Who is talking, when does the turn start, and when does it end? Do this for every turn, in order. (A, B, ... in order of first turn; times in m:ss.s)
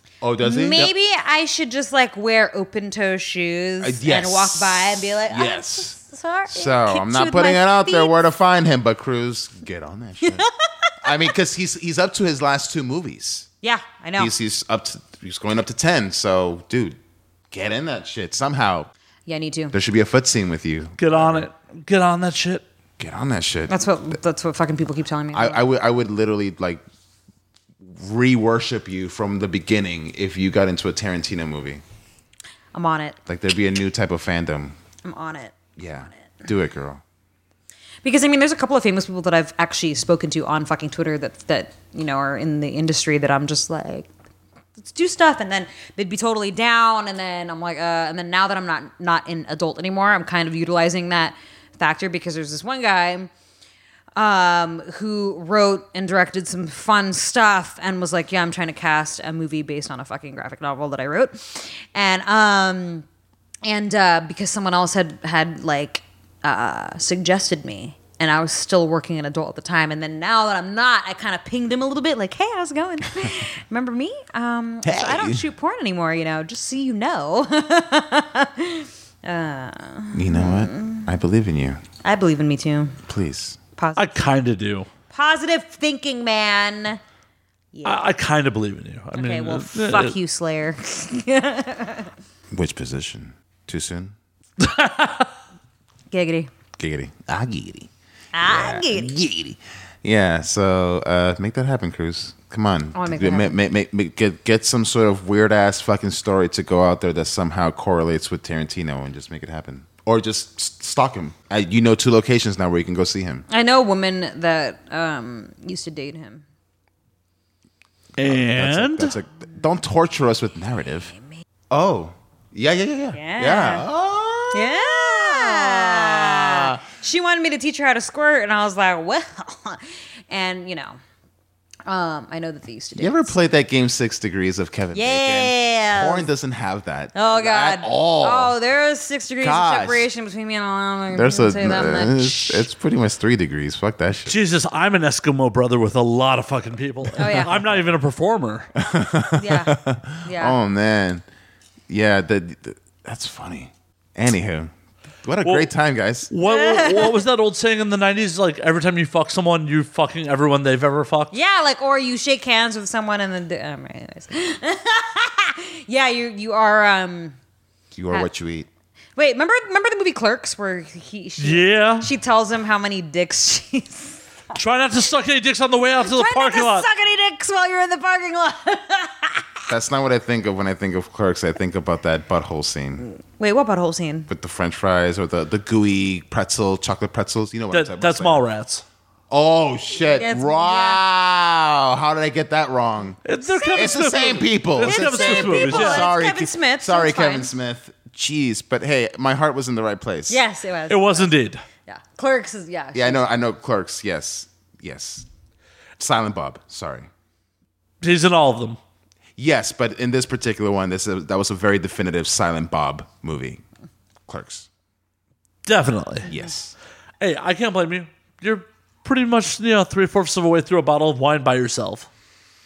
0:00.2-0:00.9 A
0:00.4-0:08.2 B
0:03.8-0:06.0 A
0:06.5-0:10.5 A
0:11.0-0:13.5 A
0:13.6-0:14.3 B
0:14.2-0:17.0 A
0:17.5-0:18.9 A
0:19.3-0:19.8 B
0:19.7-0:21.5 A
0:21.0-0:22.6 C
0:23.0-0:23.8 A
0:23.7-0:25.6 B
0:25.3-0:26.8 A
0:27.8-0:31.8 A
0:32.7-0:33.2 B
0:33.3-0:34.8 A
0:35.0-0:35.6 B
0:35.8-0:37.0 A
0:38.0-0:44.1 B
0:44.8-0:53.3 B
0:54.2-1:03.0 B
1:03.6-1:21.1 B
1:14.8-1:15.4 A
1:20.1-1:21.8 A
1:22.0-1:23.0 B
1:23.1-1:23.6 A
1:23.8-1:24.2 B
1:24.0-1:24.9 C
1:25.1-1:27.0 B
1:27.7-1:28.0 B
1:27.8-1:30.2 C
1:29.2-1:32.1 B
1:32.5-1:34.2 A
1:34.6-1:35.3 C
1:36.1-1:36.5 B
1:36.8-1:37.9 A
1:38.3-1:39.2 B
1:38.4-1:53.4 A
1:43.0-1:43.6 B
1:53.5-1:56.4 B
1:58.2-1:59.2 C
1:58.2-2:01.1 A
2:01.7-2:06.2 A
2:03.1-2:03.9 B
2:04.5-2:11.0 B
2:06.3-2:06.6 C
2:11.9-2:13.4 B
2:13.0-2:18.6 A
2:14.9-2:16.3 B
2:17.2-2:22.7 B
2:19.4-2:20.1 A
2:21.1-2:24.4 A
2:24.3-2:28.7 C
2:27.2-2:27.7 B
2:28.8-2:31.2 A
2:29.4-2:30.6 B
2:31.9-2:34.7 A
2:35.2-2:36.3 A
2:35.4-2:35.7 C
2:36.3-2:41.4 C
2:36.4-2:37.2 B
2:41.3-2:47.4 B
2:48.0-2:48.7 A
2:49.2-2:54.2 B
2:51.4-2:52.1 C
2:54.6-2:56.9 C
2:56.0-2:59.6 B
2:59.7-3:03.1 A
3:03.3-3:04.3 B
3:04.3-3:08.4 A
3:07.7-3:08.8 C
3:09.3-3:20.4 A
3:10.1-3:11.0 B
3:13.2-3:16.1 C
3:13.6-3:14.0 B
3:14.8-3:17.5 B
3:20.3-3:21.3 B
3:20.9-3:21.6 C
3:21.9-3:23.2 B
3:22.9-3:25.3 A
3:26.0-3:27.1 A
3:28.0-3:28.8 C
3:29.4-3:33.6 A
3:34.3-3:34.7 A
3:35.6-3:36.3 C
3:36.3-3:36.8 A
3:37.2-3:42.1 C